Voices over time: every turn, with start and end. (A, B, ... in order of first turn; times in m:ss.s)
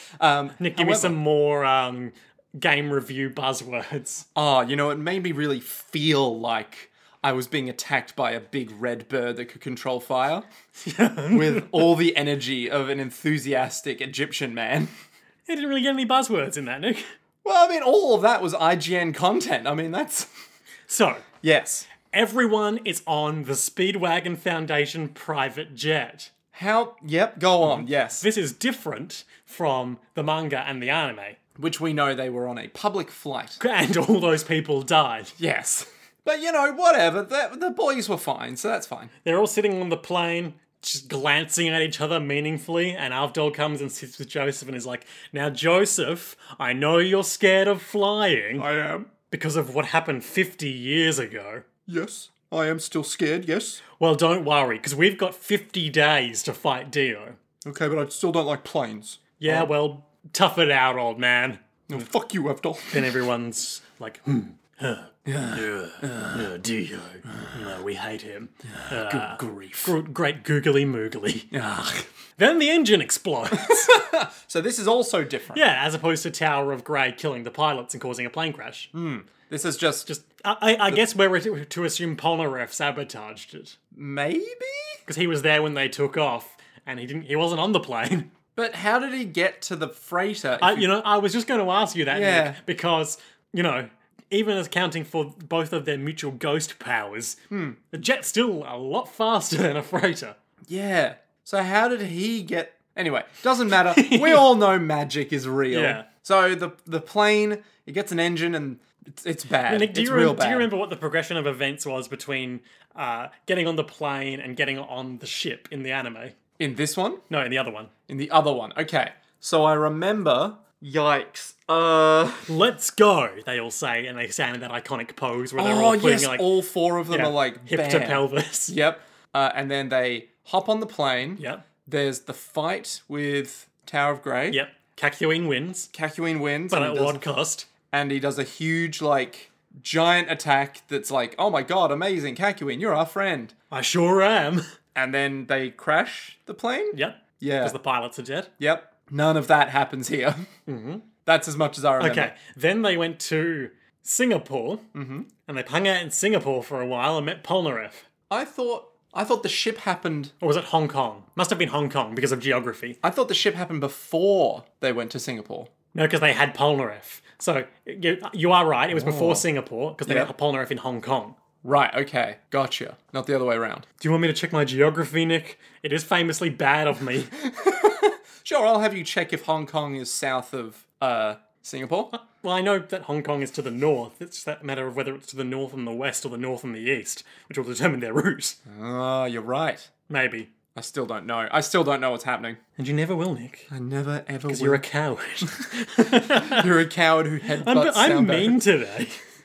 0:00.2-0:01.2 A
0:00.6-0:04.2 B
0:04.3-0:10.4 A
0:10.8-0:11.9 B
0:11.3-0:14.9 A
0:15.5-0:17.0 B
0:17.4-0:20.3 A
0:20.9-0:21.2 B
0:21.4-0:21.9 A
0:22.1-0:26.3 B
0:26.5-0:28.2 A
0:27.6-0:31.4 B
0:31.6-0:33.6 A
0:33.6-0:35.3 B
0:35.4-0:39.1 A
0:39.2-0:48.7 B
0:48.6-0:49.1 A
0:49.3-0:51.6 B
0:51.9-0:53.8 A
0:54.0-0:57.4 B
0:57.6-0:59.7 A
0:59.4-1:01.6 B
1:01.9-1:03.2 A
1:02.9-1:11.5 B
1:05.2-1:06.5 A
1:08.7-1:09.9 A
1:11.5-1:12.1 A
1:12.4-1:13.9 B
1:13.5-1:15.6 A
1:15.5-1:18.9 B
1:18.9-1:20.1 A
1:20.0-1:23.8 B
1:23.9-1:25.0 A
1:25.1-1:28.3 B
1:28.6-1:30.9 A
1:30.6-1:37.4 B
1:32.1-1:32.6 A
1:37.5-1:37.8 A
1:37.9-1:40.4 B
1:40.7-1:50.7 A
1:43.8-1:44.6 B
1:45.7-1:46.1 B
1:49.6-1:56.4 B
1:56.6-1:57.2 A
1:57.3-1:57.9 B
1:58.1-2:02.5 A
2:02.5-2:06.5 B
2:05.6-2:14.6 A
2:07.1-2:08.7 B
2:11.4-2:11.6 B
2:14.5-2:15.9 B
2:15.9-2:17.2 A
2:16.7-2:17.7 B
2:17.9-2:23.5 A
2:23.7-2:24.6 B
2:24.9-2:27.8 A
2:26.9-2:28.5 B
2:28.6-2:30.5 A
2:30.7-2:31.1 B
2:31.2-2:32.3 A
2:32.0-2:34.9 B
2:34.9-2:35.3 A
2:35.4-2:38.0 B
2:38.3-2:40.3 A
2:40.4-2:43.0 B
2:43.0-2:45.7 A
2:45.9-2:51.4 B
2:48.9-2:49.4 A
2:50.0-2:50.3 A
2:51.6-2:53.8 A
2:54.0-2:57.3 B
2:57.4-3:02.1 A
3:02.1-3:08.6 B
3:08.6-3:09.9 A
3:10.1-3:10.5 B
3:10.7-3:12.6 A
3:12.8-3:13.7 B
3:13.7-3:14.8 A
3:14.5-3:16.7 B
3:16.0-3:18.6 A
3:17.6-3:19.2 B